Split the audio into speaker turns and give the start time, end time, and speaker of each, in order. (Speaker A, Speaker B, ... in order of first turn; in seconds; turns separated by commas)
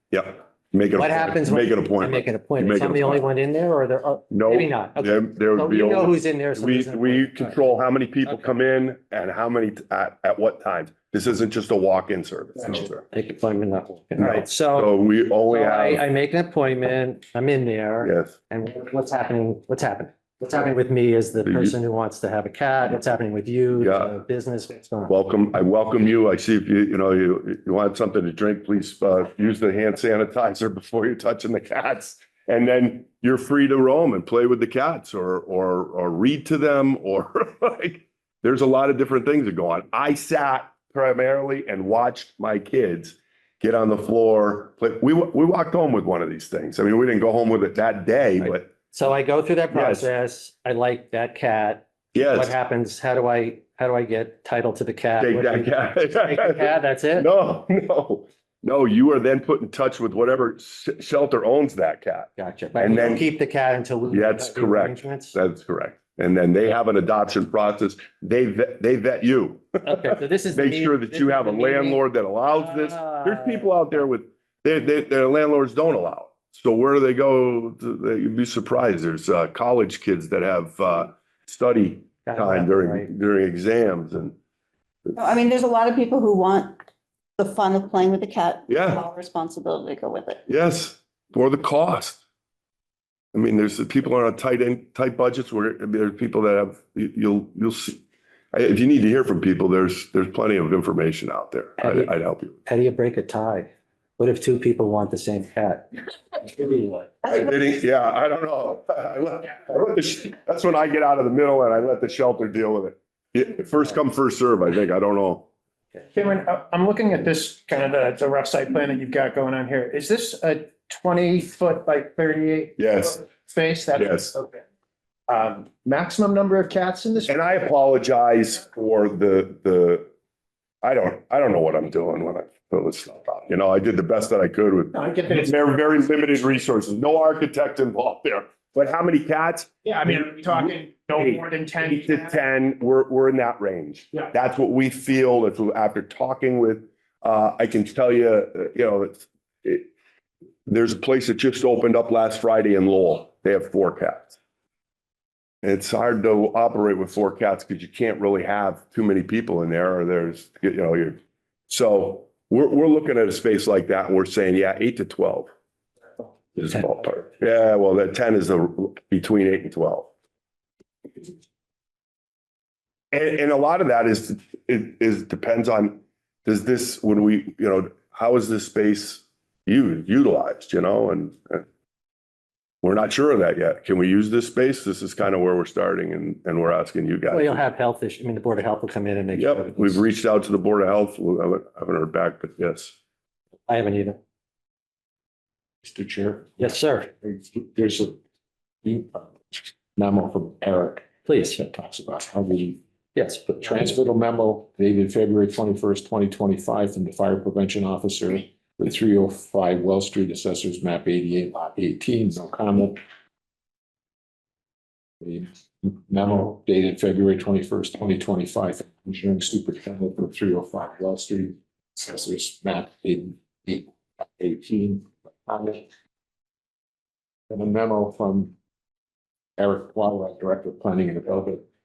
Speaker A: 0.1-3.3, Speaker B: 0.9-7.6, Speaker A: 4.3-13.0, Speaker B: 13.1-14.9, Speaker A: 14.2-16.0, Speaker B: 15.5-25.1, Speaker A: 18.0-18.3, Speaker A: 21.4-21.8, Speaker A: 23.7-24.1, Speaker A: 25.1-48.7, Speaker B: 48.4-57.3, Speaker A: 49.7-50.1, Speaker A: 52.1-52.5, Speaker A: 55.2-63.3, Speaker B: 62.4-65.3, Speaker A: 64.1-84.3, Speaker B: 69.8-73.7, Speaker B: 82.3-83.1, Speaker C: 85.2-86.8, Speaker C: 87.4-90.4, Speaker A: 88.7-89.0, Speaker A: 90.5-92.2, Speaker A: 93.3-98.0, Speaker A: 98.5-102.6, Speaker B: 101.8-102.1, Speaker B: 102.7-107.3, Speaker A: 107.2-115.5, Speaker D: 116.2-122.8, Speaker A: 122.8-123.2, Speaker D: 123.3-124.6, Speaker A: 123.9-124.3, Speaker D: 125.3-127.3, Speaker A: 127.3-130.1, Speaker A: 130.8-149.9, Speaker D: 134.9-135.5, Speaker D: 139.9-142.2, Speaker A: 150.7-154.4, Speaker A: 155.6-161.2, Speaker A: 161.7-165.5, Speaker A: 166.6-170.1, Speaker A: 173.1-181.6, Speaker A: 182.8-187.6, Speaker B: 187.3-190.0, Speaker A: 189.3-192.9, Speaker B: 193.7-194.2, Speaker E: 195.8-198.2, Speaker B: 196.6-197.1, Speaker E: 198.8-202.8, Speaker B: 201.3-201.6, Speaker B: 203.2-203.7, Speaker E: 203.5-213.0, Speaker E: 215.2-225.9, Speaker E: 227.5-228.5, Speaker E: 229.6-231.6